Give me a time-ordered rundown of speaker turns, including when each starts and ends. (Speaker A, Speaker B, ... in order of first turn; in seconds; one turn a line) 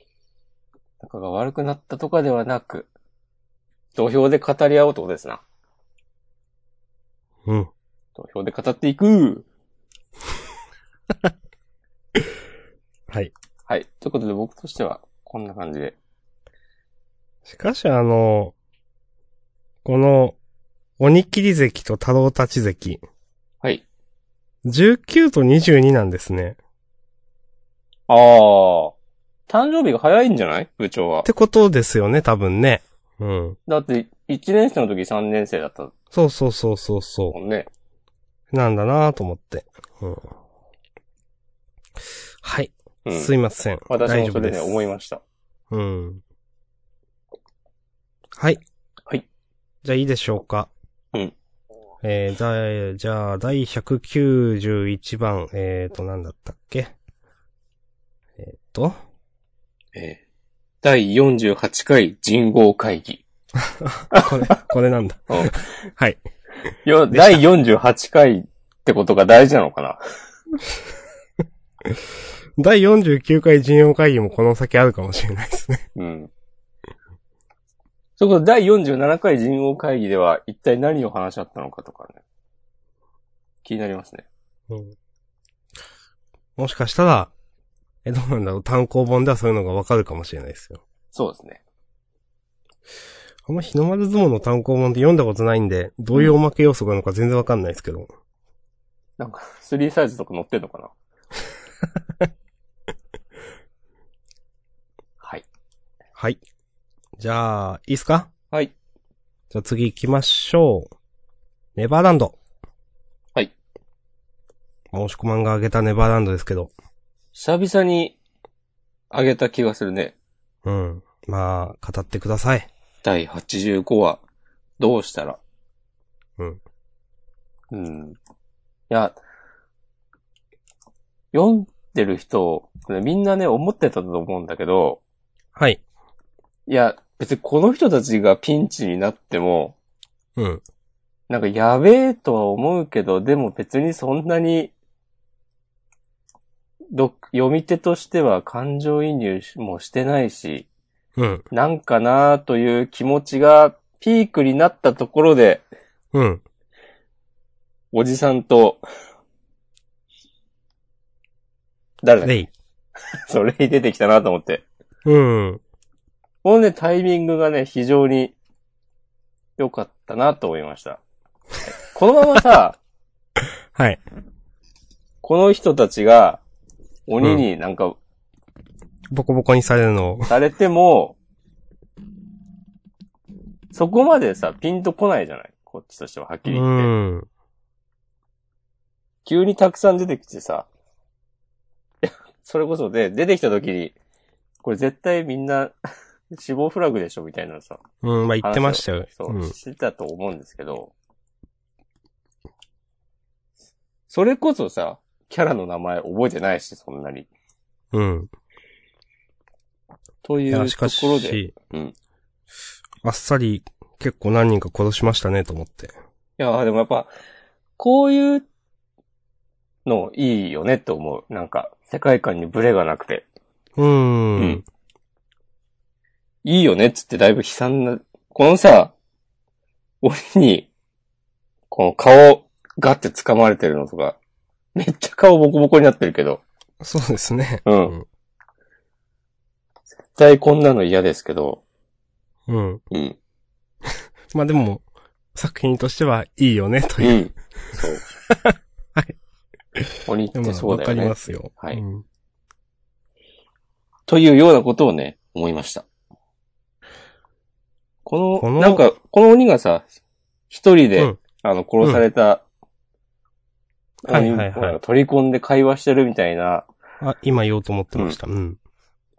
Speaker A: 1.0-2.9
Speaker A: 4.0-5.4
Speaker B: 7.5-7.7
Speaker A: 8.2-9.5
Speaker A: 13.7-16.0
Speaker B: 17.5-18.5
Speaker B: 19.9-20.4
Speaker B: 21.0-23.0
Speaker B: 24.6-26.6
Speaker A: 28.1-28.9
Speaker A: 29.5-31.3
Speaker B: 31.2-33.6
Speaker A: 33.7-35.9
Speaker B: 36.1-37.4
Speaker A: 37.3-37.7
Speaker B: 38.5-40.3
Speaker B: 42.4-44.8
Speaker A: 43.0-43.3
Speaker A: 43.9-45.2
Speaker B: 45.7-46.2
Speaker B: 48.4-48.6
Speaker B: 49.8-50.7
Speaker B: 52.0-56.9
Speaker B: 58.4-59.0
Speaker A: 60.0-60.2
Speaker A: 60.8-63.2
Speaker B: 63.6-66.2
Speaker A: 64.1-64.6
Speaker A: 65.3-65.7
Speaker A: 66.8-70.0
Speaker B: 67.1-67.4
Speaker B: 72.6-75.9
Speaker A: 76.0-76.3
Speaker A: 78.2-82.2
Speaker A: 83.6-84.2
Speaker B: 84.7-85.0
Speaker B: 86.6-87.3
Speaker B: 88.0-90.8
Speaker A: 91.1-91.6
Speaker B: 93.5-98.1
Speaker A: 99.2-100.9
Speaker B: 107.2-108.3
Speaker B: 109.5-110.9
Speaker B: 111.8-112.3
Speaker B: 114.9-116.7
Speaker A: 117.3-118.2
Speaker A: 119.1-120.1
Speaker B: 120.7-122.7
Speaker A: 123.0-124.2
Speaker A: 124.8-125.4
Speaker A: 127.7-128.2
Speaker A: 128.9-129.2
Speaker A: 131.3-135.0
Speaker B: 135.6-135.8
Speaker A: 136.7-139.8
Speaker B: 140.4-140.6
Speaker A: 141.3-144.7
Speaker A: 146.9-150.7
Speaker B: 151.2-151.4
Speaker A: 151.5-155.6
Speaker B: 156.1-156.4
Speaker A: 157.9-158.8
Speaker A: 162.0-162.4
Speaker A: 163.3-164.7
Speaker B: 165.1-165.6
Speaker A: 166.4-168.3
Speaker A: 169.6-171.0
Speaker A: 171.9-172.8
Speaker B: 173.7-174.0
Speaker A: 175.2-176.4
Speaker A: 177.1-178.0
Speaker B: 179.1-180.3
Speaker A: 180.3-181.2
Speaker A: 183.7-186.9
Speaker B: 186.5-187.3
Speaker A: 189.2-190.7
Speaker A: 192.0-193.9
Speaker A: 194.6-195.7
Speaker A: 196.3-197.8
Speaker B: 198.0-199.5
Speaker A: 198.4-200.9
Speaker A: 204.1-207.3
Speaker B: 207.9-208.3
Speaker A: 210.2-211.9
Speaker B: 210.5-211.5
Speaker B: 213.0-215.9
Speaker A: 216.4-217.1
Speaker A: 217.8-218.4
Speaker A: 219.9-223.2
Speaker B: 223.8-224.6
Speaker A: 226.4-228.9
Speaker A: 230.0-230.7
Speaker A: 231.7-234.2
Speaker A: 234.8-236.4
Speaker B: 236.8-238.1
Speaker A: 237.7-237.9
Speaker A: 240.1-241.6
Speaker B: 242.5-242.8
Speaker A: 242.9-243.2
Speaker B: 244.3-244.8
Speaker B: 245.3-247.8
Speaker A: 247.0-248.1
Speaker B: 248.3-249.2
Speaker B: 249.8-252.0
Speaker A: 250.1-251.8
Speaker A: 254.1-255.8
Speaker A: 258.1-259.9
Speaker B: 258.4-258.8
Speaker A: 260.5-262.4
Speaker A: 264.1-266.7
Speaker B: 264.1-264.8
Speaker B: 267.0-268.6